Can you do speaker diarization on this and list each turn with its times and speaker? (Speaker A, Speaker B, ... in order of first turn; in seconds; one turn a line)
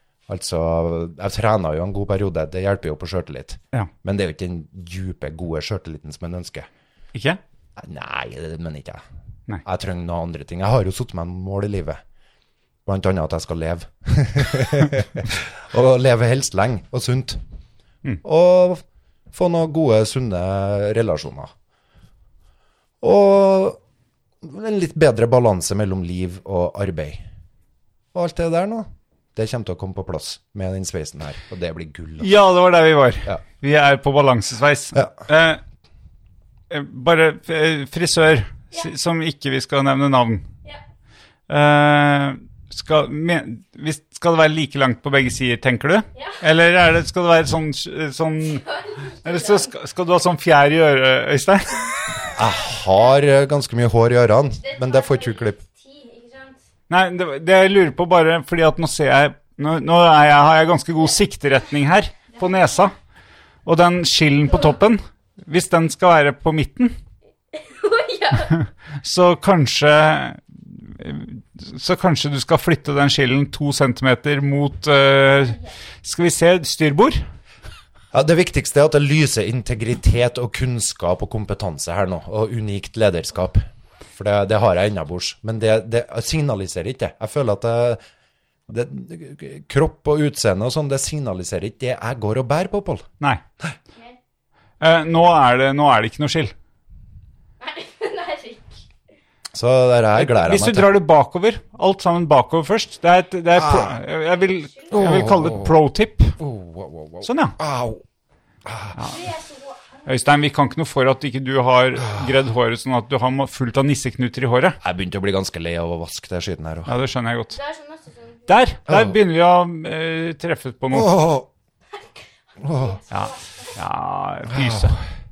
Speaker A: 0.3-6.7
Speaker B: 7.1-7.4
Speaker A: 7.8-9.0
Speaker A: 9.6-12.0
Speaker A: 12.8-17.4
Speaker A: 18.2-21.5
Speaker A: 23.0-23.8
Speaker A: 24.4-27.2
Speaker A: 28.1-32.3
Speaker B: 32.2-35.6
Speaker B: 36.7-40.5
Speaker B: 41.5-48.6
Speaker C: 46.1-46.4
Speaker C: 48.5-49.7
Speaker B: 49.2-51.9
Speaker A: 52.3-55.6
Speaker C: 54.6-56.6
Speaker B: 56.9-62.9
Speaker C: 62.4-62.6
Speaker B: 63.6-66.9
Speaker C: 67.5-68.6
Speaker B: 68.6-77.2
Speaker C: 75.3-75.7
Speaker A: 78.1-88.0
Speaker A: 88.7-93.1
Speaker B: 94.8-96.5
Speaker C: 97.6-98.8
Speaker A: 99.5-100.9
Speaker B: 100.2-106.4
Speaker A: 103.5-104.0
Speaker C: 104.3-105.0
Speaker A: 104.9-105.7
Speaker A: 106.4-108.0
Speaker B: 107.2-107.5
Speaker A: 108.6-109.0
Speaker B: 108.9-109.2
Speaker C: 109.0-110.3
Speaker B: 110.0-114.8
Speaker A: 114.8-116.9
Speaker B: 116.8-117.6
Speaker C: 117.5-118.5
Speaker B: 118.5-121.2
Speaker A: 118.9-119.1
Speaker A: 120.9-121.5
Speaker C: 122.6-123.7
Speaker A: 122.6-123.0
Speaker B: 123.1-125.0
Speaker A: 124.5-124.9